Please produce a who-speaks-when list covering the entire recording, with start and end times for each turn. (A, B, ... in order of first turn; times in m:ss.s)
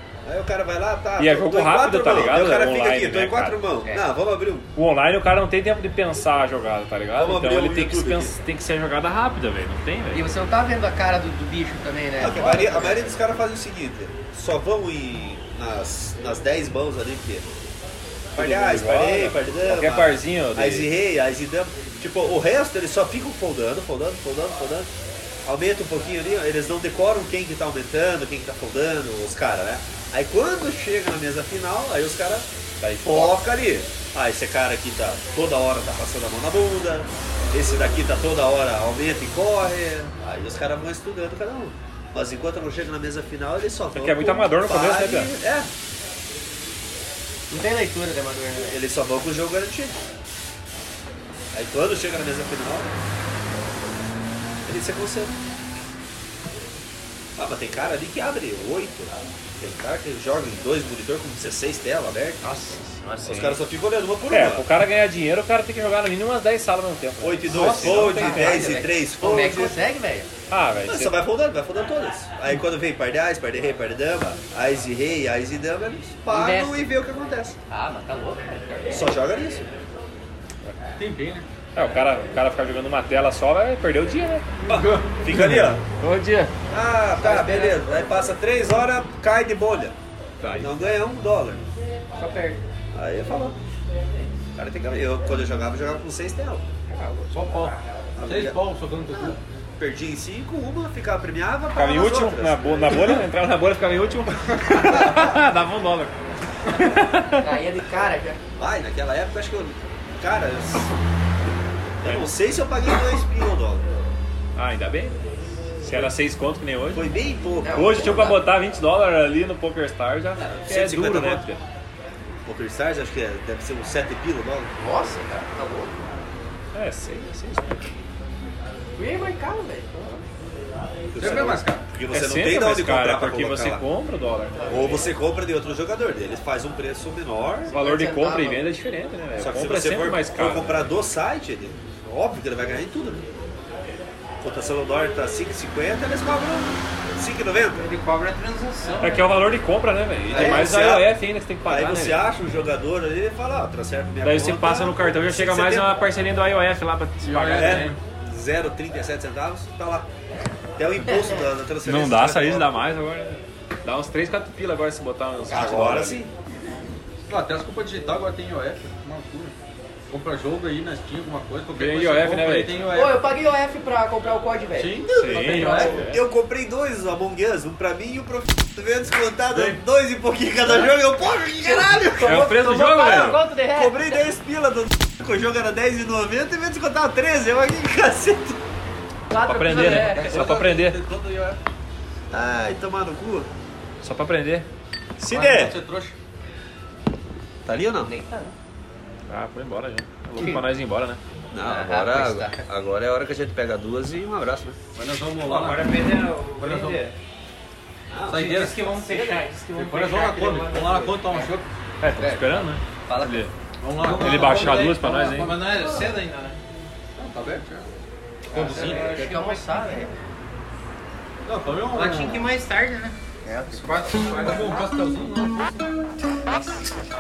0:00.2-0:04.7 A
0:01.2-0:03.6 B
0:04.8-0:10.3 B
0:07.2-0:08.4 A
0:10.1-0:13.2 C
0:12.2-0:17.5 A
0:18.3-0:24.9 A
0:18.4-0:20.9 B
0:25.4-0:32.5 A
0:32.8-0:33.5 B
0:33.0-0:45.7 A
0:44.0-0:45.3 B
0:47.5-0:48.8 C
0:48.7-0:50.0 A
0:51.5-0:53.0 A
0:54.6-0:55.4 A
0:57.4-1:02.4 A
1:02.4-1:03.6 C
1:03.2-1:04.7 A
1:03.2-1:03.6 B
1:04.3-1:08.8 B
1:07.2-1:09.8 A
1:07.5-1:10.3 C
1:10.5-1:11.2 B
1:10.9-1:17.6 A
1:16.3-1:17.0 C
1:17.7-1:19.0 C
1:18.9-1:19.7 A
1:21.0-1:21.5 D
1:21.8-1:24.6 B
1:24.7-1:25.1 D
1:24.7-1:25.8 A
1:25.3-1:26.5 B
1:26.7-1:30.0 A
1:27.2-1:27.9 C
1:30.4-1:30.7 B
1:30.6-1:31.6 A
1:32.2-1:32.6 C
1:32.9-1:33.6 A
1:34.6-1:36.6 A
1:36.9-1:37.8 C
1:37.3-1:39.4 D
1:38.2-1:38.6 A
1:39.1-1:39.4 C
1:39.8-1:43.2 A
1:41.7-1:46.1 B
1:45.0-1:45.4 A
1:46.7-1:47.5 B
1:47.3-1:48.4 C
1:48.6-1:50.9 A
1:52.0-1:54.0 A
1:52.0-1:52.3 B
1:54.6-1:55.2 B
1:55.8-1:57.1 B
1:56.9-1:58.4 A
1:57.6-1:58.4 C
1:57.7-2:01.6 B
2:00.4-2:01.0 C
2:00.7-2:01.4 A
2:02.4-2:04.7 A
2:04.8-2:06.0 C
2:06.7-2:07.9 B
2:09.0-2:10.2 C
2:11.1-2:13.9 A
2:11.2-2:11.8 D
2:12.1-2:15.0 B
2:14.6-2:15.0 C
2:14.7-2:17.7 A
2:17.7-2:18.7 C
2:17.7-2:20.9 B
2:19.4-2:23.3 A
2:24.4-2:27.9 A
2:27.8-2:29.4 E
2:29.0-2:32.2 B
2:30.3-2:31.2 A
2:31.7-2:36.0 A
2:34.2-2:38.0 B
2:37.2-2:38.0 D
2:37.5-2:40.1 A
2:40.8-2:42.8 A
2:41.8-2:46.2 B
2:45.5-2:46.3 A
2:47.3-2:49.6 D
2:50.1-2:53.2 D
2:51.8-2:52.8 B
2:52.9-2:56.1 C
2:54.8-2:56.1 D
2:55.1-2:56.2 B
2:56.0-3:08.6 A
2:59.5-2:59.8 B
3:01.6-3:04.2 C
3:02.2-3:03.5 B
3:09.3-3:10.5 C
3:09.4-3:11.0 B
3:09.8-3:11.6 D
3:12.3-3:13.5 A
3:14.0-3:14.7 B
3:15.2-3:15.6 B
3:15.2-3:16.2 D
3:15.3-3:15.8 A
3:17.7-3:18.1 A
3:18.0-3:18.6 C
3:19.3-3:21.2 B
3:20.4-3:20.6 C
3:21.5-3:24.8 A
3:21.6-3:22.6 C
3:25.0-3:27.0 D
3:25.4-3:27.2 E
3:28.1-3:29.4 A
3:28.3-3:29.2 D
3:28.3-3:31.5 E
3:29.7-3:31.7 D
3:32.0-3:33.5 B
3:32.1-3:33.5 C
3:33.8-3:35.5 D
3:34.0-3:35.6 B
3:34.0-3:36.6 E
3:37.2-3:37.9 D
3:38.5-3:39.1 D
3:38.5-3:40.1 E
3:38.5-3:40.2 C
3:41.4-3:42.5 D
3:41.9-3:43.2 E
3:43.4-3:44.2 C
3:43.7-3:44.9 E
3:44.3-3:45.9 D
3:46.5-3:47.1 C